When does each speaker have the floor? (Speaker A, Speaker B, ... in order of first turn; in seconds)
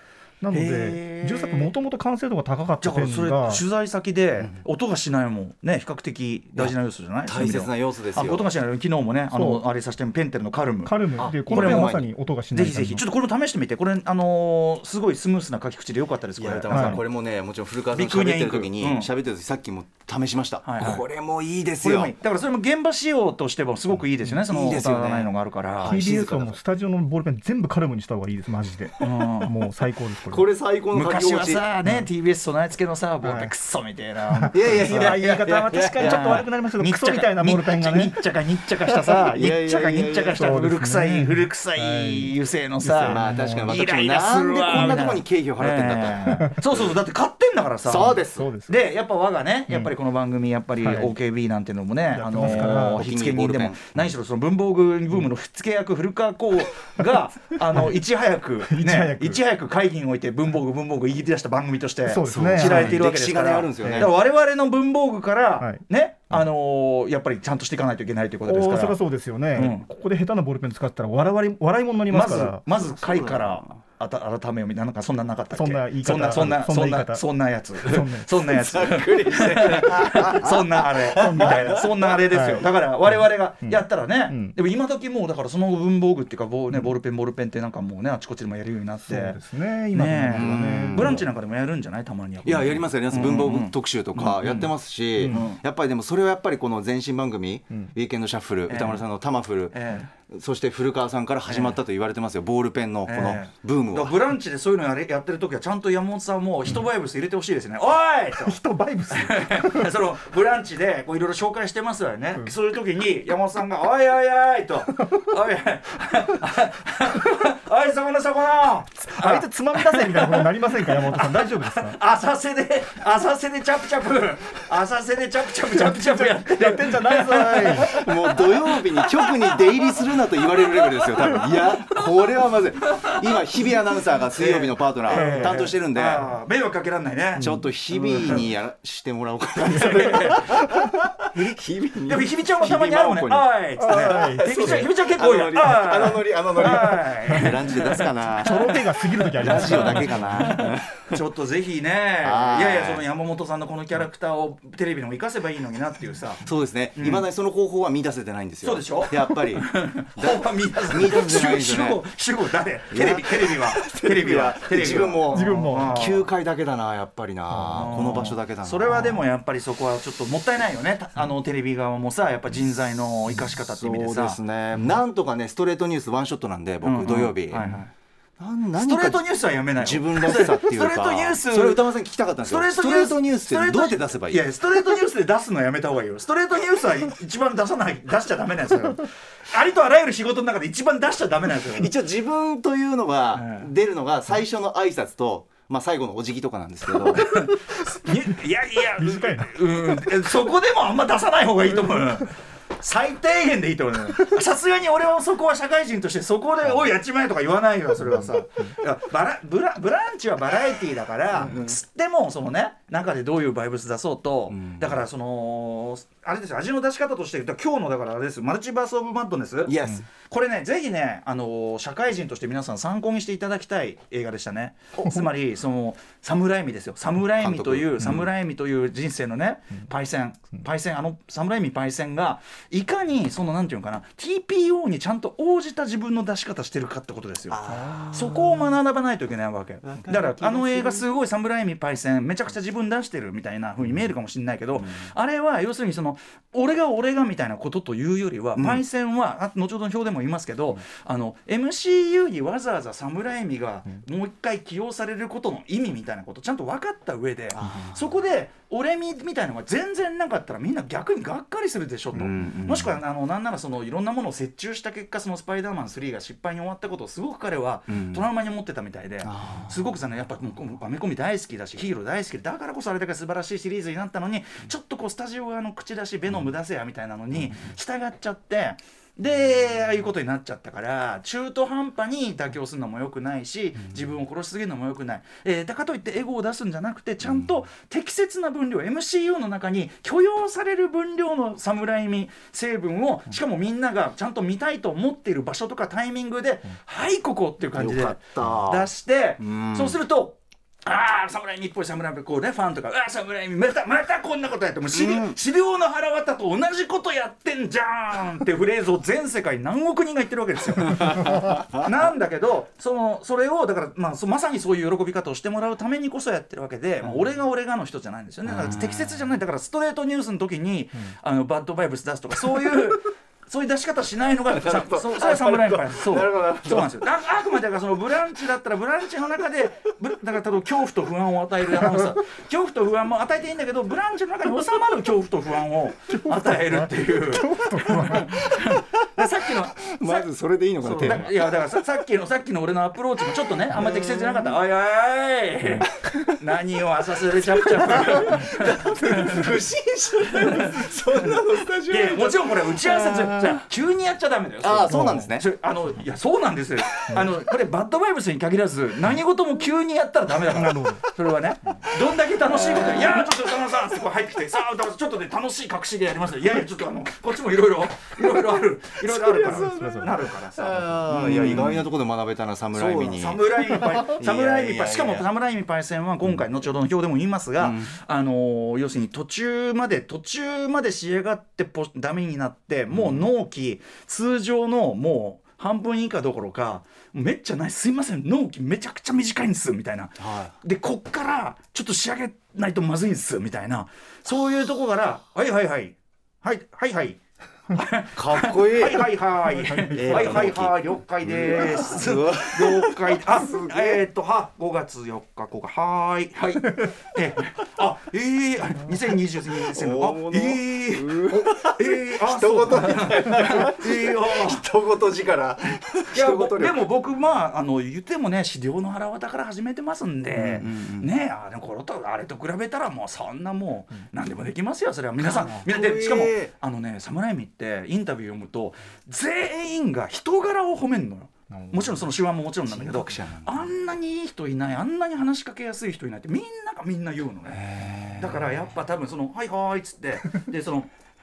Speaker A: 0.4-3.6, 9.3-9.6, 10.8-13.0, 16.7-17.0, 25.9-30.5, 33.2-33.5, 34.3-38.2, 40.4-43.8, 48.3-48.8, 50.8-51.1, 52.1-53.0, 58.6-59.4, 62.0-63.0, 63.8-64.1, 65.6-66.3, 68.4-72.6, 75.5-77.2, 77.8-78.5, 81.2-81.8, 82.3-84.5, 89.1-91.3, 95.2-95.5, 108.4-109.9, 119.1-122.0, 125.7-128.0, 135.1-135.7, 137.4-138.4, 139.7-141.4, 143.8-144.9, 147.3-147.5, 148.4-150.6, 165.3-166.0, 167.5-167.9, 199.0-199.5, 336.2-338.4, 354.9-355.3, 360.5-361.0, 369.6-370.1, 399.6-400.2
Speaker B: 0.5-1.7, 2.8-12.0, 12.5-17.0, 17.9-19.1, 20.6-21.1, 21.8-26.0, 29.0-29.5, 30.9-69.0, 69.5-69.8, 72.1-89.4, 89.9-94.7, 95.3-95.6, 98.7-99.0, 99.7-100.1, 101.5-101.8, 103.1-108.6, 109.1-132.0, 132.9-133.4, 134.3-137.6, 138.1-138.4, 139.6-140.6, 142.1-148.8, 149.4-156.4, 156.9-157.2, 158.6-166.3, 167.7-174.4, 176.8-177.9, 178.8-181.8, 182.4-191.9, 193.3-193.7, 197.1-237.6, 238.1-340.3, 340.8-349.6, 350.3-351.4, 351.9-371.9, 372.7-414.6, 416.1-440.9
Speaker C: 7.2-8.5, 11.2-12.1, 16.4-22.1, 24.2-26.6, 30.3-31.6, 34.5-36.4, 39.2-40.4, 43.0-46.9, 47.8-48.5, 52.4-53.9, 62.2-64.1, 73.0-73.6, 78.4-82.4, 90.2-91.2, 92.4-104.2, 127.8-136.3, 137.4-148.8, 149.3-151.2, 152.2-153.0, 156.4-162.0, 162.9-169.2, 173.5-177.8, 178.4-184.4, 191.7-197.3, 211.4-211.8, 214.5-215.0, 219.7-220.1, 227.2-228.3, 237.5-238.7, 239.8-241.1, 248.6-248.8, 257.6-258.0, 262.1-262.9, 267.9-268.2, 269.2-269.8, 297.7-298.9, 299.4-300.0, 304.9-305.4, 318.5-319.3, 324.5-327.1, 339.8-341.8, 343.7-344.6, 345.8-346.3, 347.4-353.6, 354.6-355.4, 362.4-363.4, 369.0-375.2, 377.6-377.9, 382.9-383.3, 390.2-390.5, 398.1-399.1, 399.9-404.0, 409.7-416.8, 420.3-421.1, 425.2-426.5, 432.7-433.7, 437.5-438.5